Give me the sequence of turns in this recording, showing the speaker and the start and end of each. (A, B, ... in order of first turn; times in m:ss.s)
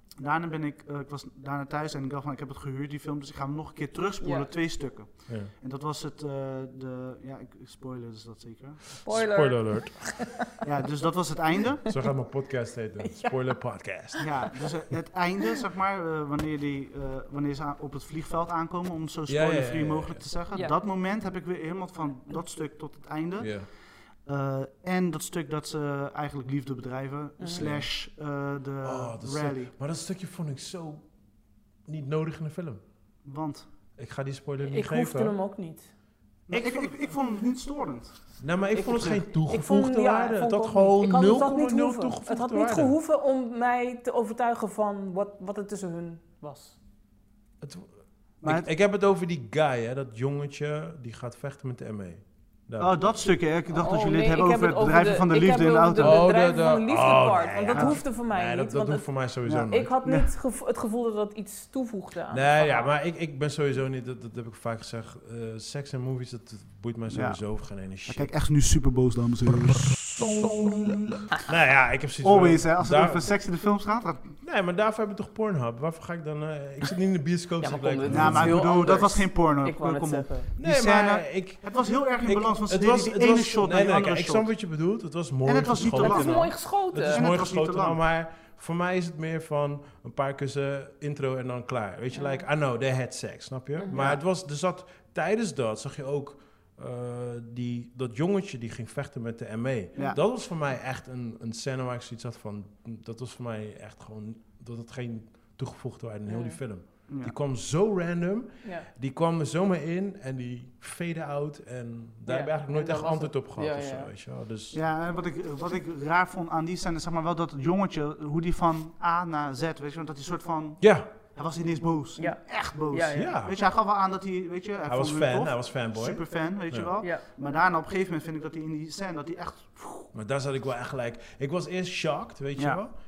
0:00.2-0:09.1 A
0:04.2-0:04.5 B
0:09.0-0:10.5 B
0:09.1-0:10.3 C
0:10.6-0:11.9 A
0:11.9-0:14.6 C
0:13.0-0:13.6 B
0:14.1-0:14.4 B
0:14.2-0:23.7 A
0:19.3-0:20.3 C
0:23.4-0:23.7 C
0:24.2-0:29.7 A
0:27.4-0:27.6 B
0:27.6-0:27.9 C
0:28.8-0:31.1 C
0:31.9-0:32.8 C
0:33.2-0:33.7 A
0:34.0-0:35.4 C
0:34.6-0:35.9 B
0:36.5-0:39.2 A
0:36.5-0:36.9 C
0:38.4-0:43.0 C
0:39.5-0:46.8 B
0:47.6-0:47.9 C
0:48.4-0:48.7 A
0:48.4-0:53.1 C
0:52.8-0:56.3 A
0:53.7-0:59.1 B
0:56.0-0:59.9 C
0:57.7-0:58.0 A
0:59.4-1:00.3 A
0:59.7-1:02.9 B
1:02.3-1:08.3 C
1:07.1-1:11.5 A
1:11.4-1:13.3 C
1:12.2-1:14.4 A
1:14.4-1:18.6 C
1:17.6-1:20.5 B
1:18.1-1:24.6 A
1:20.6-1:54.8 C
1:25.4-1:28.0 A
1:25.9-1:27.2 B
1:32.1-1:32.4 B
1:33.8-1:34.1 B
1:33.9-1:34.2 A
1:46.3-1:46.6 B
1:47.1-1:47.4 A
1:52.3-1:54.1 B
1:54.7-2:10.1 A
2:00.8-2:01.1 C
2:02.2-2:03.4 B
2:03.2-2:03.6 C
2:04.9-2:06.9 C
2:07.0-2:07.2 B
2:10.1-2:13.0 C